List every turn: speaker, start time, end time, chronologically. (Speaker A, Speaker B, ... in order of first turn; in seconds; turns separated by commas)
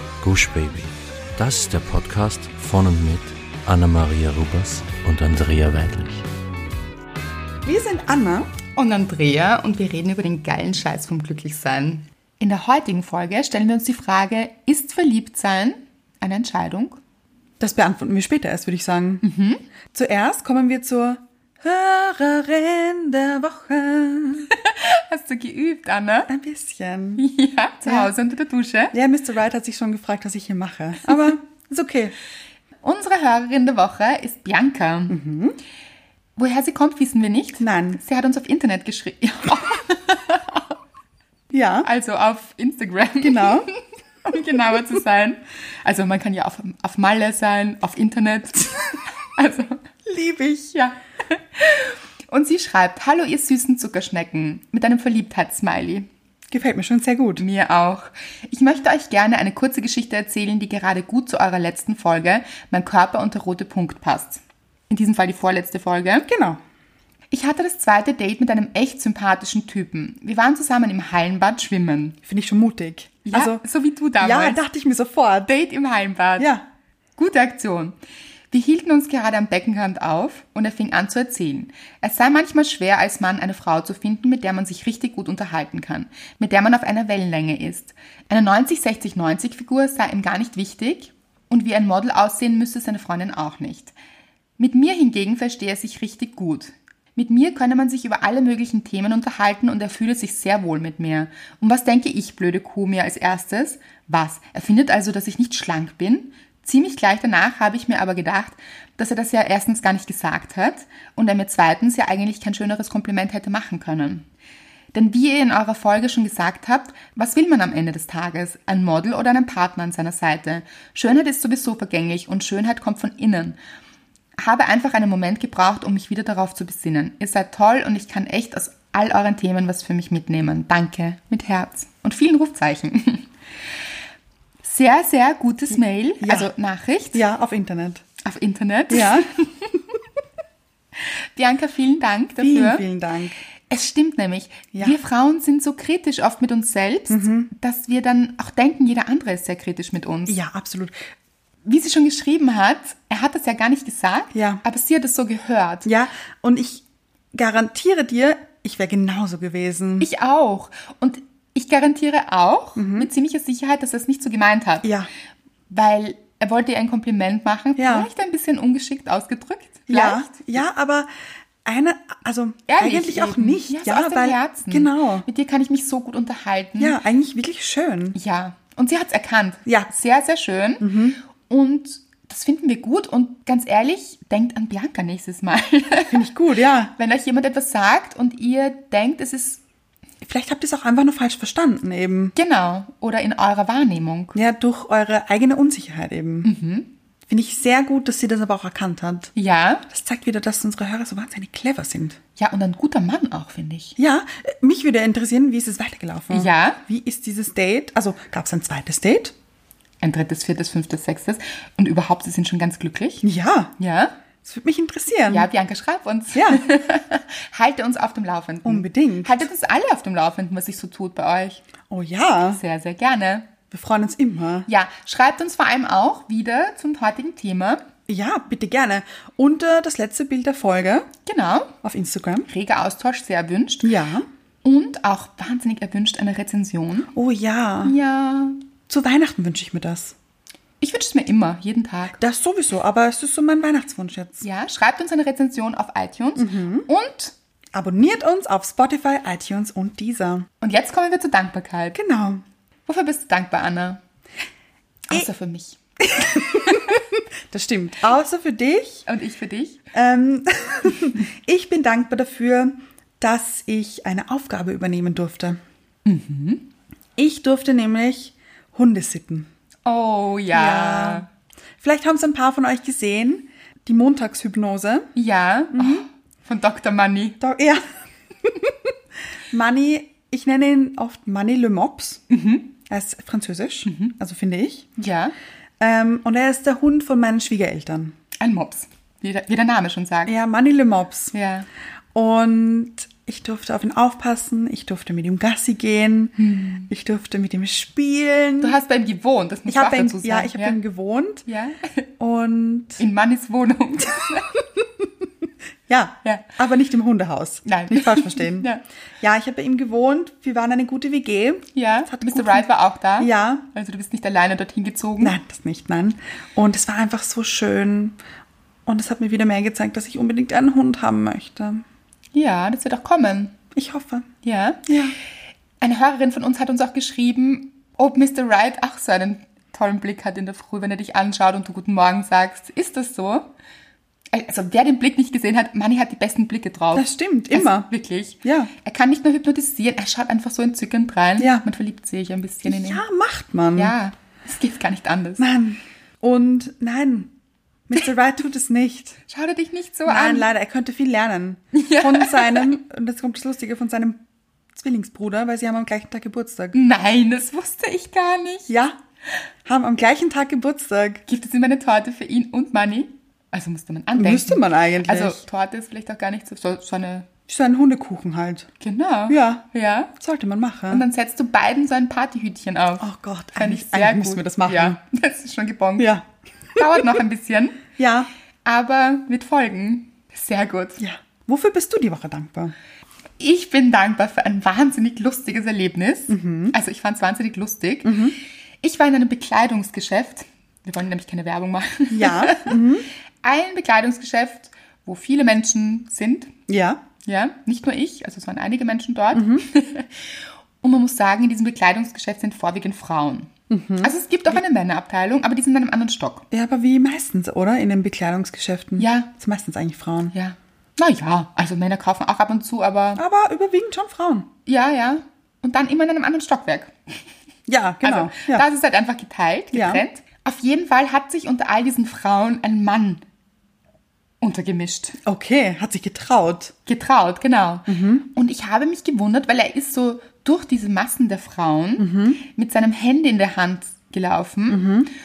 Speaker A: 0.2-6.2, Speaker B: 7.6-8.5, Speaker C: 8.7-17.0, Speaker B: 17.6-19.2, Speaker C: 19.2-19.6, Speaker B: 19.9-24.5, Speaker C: 24.5-26.3, Speaker B: 26.3-27.2, Speaker C: 27.2-28.9, Speaker B: 27.8-28.1, Speaker B: 28.9-32.1, Speaker C: 32.8-35.2, Speaker B: 35.1-35.6, Speaker C: 36.4-40.7, Speaker B: 37.6-38.0, Speaker B: 41.5-41.9, Speaker C: 41.8-49.8, Speaker B: 43.2-43.7, Speaker B: 50.0-50.7, Speaker C: 50.7-56.1, Speaker B: 56.5-57.4, Speaker C: 57.4-66.3, Speaker B: 66.2-66.6, Speaker C: 67.3-72.2, Speaker B: 72.2-73.6, Speaker C: 73.2-74.6, Speaker B: 74.2-75.5, Speaker C: 75.5-76.5, Speaker B: 76.4-76.6, Speaker C: 77.2-77.9, Speaker C: 78.5-93.9, Speaker C: 94.6-114.2, Speaker C: 114.9-123.6, Speaker C: 124.4-133.3, Speaker C: 134.6-137.2, Speaker B: 136.2-136.5, Speaker B: 137.1-138.0, Speaker C: 138.2-139.7, Speaker B: 138.9-139.3, Speaker C: 141.3-142.8, Speaker B: 142.4-143.3, Speaker C: 143.7-150.4, Speaker B: 147.1-147.5, Speaker B: 150.3-150.9, Speaker C: 151.6-155.9, Speaker B: 154.3-154.6, Speaker B: 155.8-160.1, Speaker C: 160.0-164.9, Speaker B: 162.8-163.1, Speaker B: 164.8-165.1, Speaker C: 165.7-170.5, Speaker B: 167.8-168.1, Speaker B: 169.9-171.1, Speaker B: 171.6-175.2, Speaker C: 172.7-176.9, Speaker B: 176.8-178.2, Speaker C: 178.1-186.2, Speaker B: 180.8-181.2, Speaker B: 186.1-186.9, Speaker C: 186.9-189.6, Speaker B: 190.2-192.3, Speaker C: 192.3-194.3, Speaker B: 194.3-196.5, Speaker C: 196.4-196.9, Speaker B: 197.3-199.3, Speaker C: 199.3-199.8, Speaker B: 199.9-202.2, Speaker C: 202.4-204.0, Speaker B: 204.0-209.3, Speaker C: 206.3-206.8, Speaker C: 210.0-213.2, Speaker B: 213.2-213.7, Speaker C: 213.8-214.2, Speaker B: 214.4-215.5, Speaker C: 215.3-221.6, Speaker B: 216.3-216.6, Speaker B: 218.6-219.5, Speaker B: 221.9-222.6, Speaker C: 222.5-223.5, Speaker B: 223.7-224.7, Speaker C: 224.7-227.8, Speaker B: 228.1-231.1, Speaker C: 231.2-231.8, Speaker B: 231.8-232.5, Speaker C: 232.5-233.9, Speaker B: 233.8-234.2, Speaker C: 234.6-237.1, Speaker B: 237.1-237.9, Speaker C: 237.8-238.6, Speaker B: 238.9-240.1, Speaker C: 240.8-242.2, Speaker B: 242.2-244.4, Speaker C: 244.4-247.3, Speaker B: 246.4-246.9, Speaker B: 247.7-250.5, Speaker C: 250.6-252.0, Speaker B: 251.9-252.4, Speaker C: 252.8-254.0, Speaker C: 255.1-257.0, Speaker B: 256.0-259.0, Speaker C: 259.1-259.8, Speaker B: 259.9-265.6, Speaker C: 266.0-266.7, Speaker B: 267.2-269.5, Speaker C: 269.9-271.3, Speaker B: 270.5-271.2, Speaker B: 271.8-275.1, Speaker C: 275.1-277.4, Speaker B: 275.7-276.0, Speaker B: 277.4-277.8, Speaker B: 278.4-278.7, Speaker B: 279.5-282.2, Speaker C: 282.3-282.7, Speaker B: 282.9-284.9, Speaker C: 283.9-284.1, Speaker C: 285.0-285.3, Speaker B: 285.8-288.1, Speaker C: 288.4-290.3, Speaker B: 290.2-291.3, Speaker C: 291.3-291.7, Speaker B: 292.1-296.3, Speaker C: 296.4-296.9, Speaker B: 296.9-298.8, Speaker C: 298.6-300.8, Speaker B: 299.7-301.4, Speaker C: 301.4-302.1, Speaker B: 302.2-303.0, Speaker C: 303.0-304.6, Speaker B: 305.9-308.7, Speaker C: 307.6-308.8, Speaker B: 309.2-312.7, Speaker C: 311.7-315.3, Speaker B: 313.2-313.6, Speaker B: 315.2-318.2, Speaker B: 318.9-321.8, Speaker C: 322.3-323.5, Speaker B: 323.7-324.3, Speaker C: 324.4-324.9, Speaker B: 324.9-325.1, Speaker C: 325.8-333.5, Speaker C: 334.3-343.0, Speaker B: 336.9-337.9, Speaker B: 338.4-338.7, Speaker B: 341.4-341.6, Speaker B: 342.6-343.9, Speaker C: 343.8-345.4, Speaker B: 345.4-347.3, Speaker B: 347.9-349.2, Speaker C: 349.3-350.5, Speaker B: 350.1-354.2, Speaker C: 351.7-352.7, Speaker B: 354.7-356.8, Speaker C: 356.7-358.7, Speaker B: 358.7-358.9, Speaker B: 359.6-361.2, Speaker C: 361.3-367.3, Speaker B: 364.1-365.4, Speaker B: 367.5-368.7, Speaker C: 368.8-370.1, Speaker B: 369.3-371.0, Speaker C: 370.9-376.1, Speaker B: 373.0-375.0, Speaker B: 376.0-377.0, Speaker C: 376.8-377.9, Speaker B: 378.0-378.3, Speaker C: 378.6-381.0, Speaker B: 381.0-382.7, Speaker C: 383.4-388.3, Speaker B: 386.3-386.8, Speaker B: 388.0-388.4, Speaker C: 388.8-392.8, Speaker B: 392.1-393.1, Speaker C: 393.4-396.5, Speaker B: 396.7-397.0, Speaker C: 397.2-403.5, Speaker B: 399.3-399.6, Speaker B: 403.7-404.6, Speaker C: 404.0-406.5, Speaker B: 406.5-410.3, Speaker C: 409.0-409.3, Speaker C: 410.3-413.2, Speaker B: 413.1-414.5, Speaker C: 414.6-416.9, Speaker B: 417.7-418.6, Speaker C: 418.0-423.2, Speaker B: 419.7-420.0, Speaker C: 424.4-425.2, Speaker B: 425.2-426.7, Speaker C: 426.9-434.9, Speaker B: 427.9-428.2, Speaker B: 432.0-432.4, Speaker B: 434.7-435.1